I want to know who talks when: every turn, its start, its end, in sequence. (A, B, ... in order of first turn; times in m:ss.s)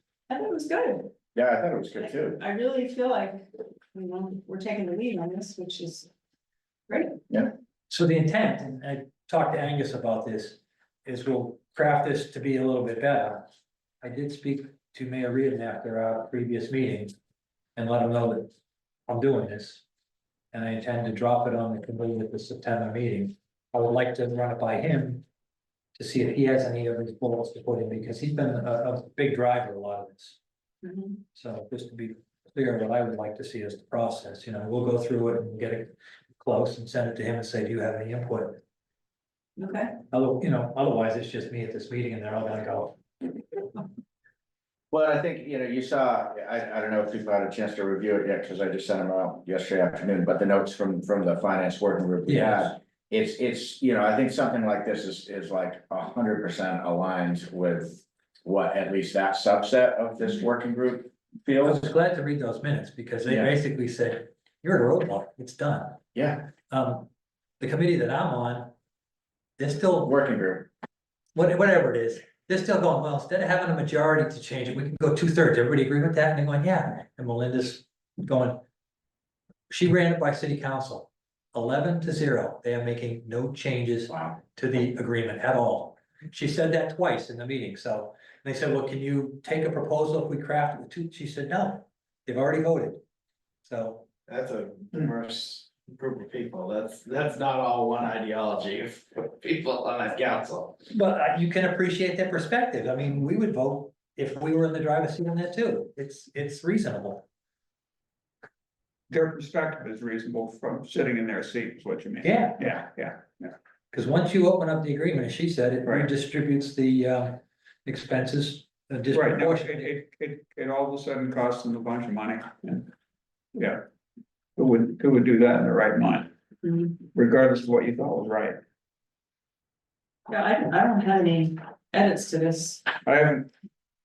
0:00.3-0:01.1 A
0:01.3-0:02.4 B
0:02.0-0:06.1 A
0:06.9-0:07.2 A
0:07.9-0:13.5 C
0:14.0-0:17.1 C
0:17.8-0:18.5 C
0:19.1-0:19.8 C
0:20.5-0:25.2 C
0:26.0-0:30.4 C
0:30.8-0:31.2 A
0:31.3-0:38.6 C
0:39.6-0:40.0 A
0:40.1-0:43.0 C
0:44.9-1:01.9 B
0:52.3-0:52.7 C
1:01.6-1:06.0 C
1:03.2-1:03.5 B
1:06.2-1:06.4 B
1:06.7-1:07.1 C
1:07.6-1:08.7 C
1:09.6-1:10.2 C
1:10.0-1:10.7 B
1:11.3-1:18.6 C
1:19.7-1:33.0 C
1:33.7-1:34.1 C
1:34.3-1:40.8 D
1:40.9-1:47.2 C
1:49.1-1:53.5 E
1:52.2-1:52.7 C
1:53.9-1:59.9 C
1:59.1-2:02.9 E
2:03.6-2:03.8 E
2:04.6-2:06.3 E
2:06.6-2:07.0 A
2:07.0-2:08.6 E
2:10.3-2:12.9 A
2:13.0-2:13.5 E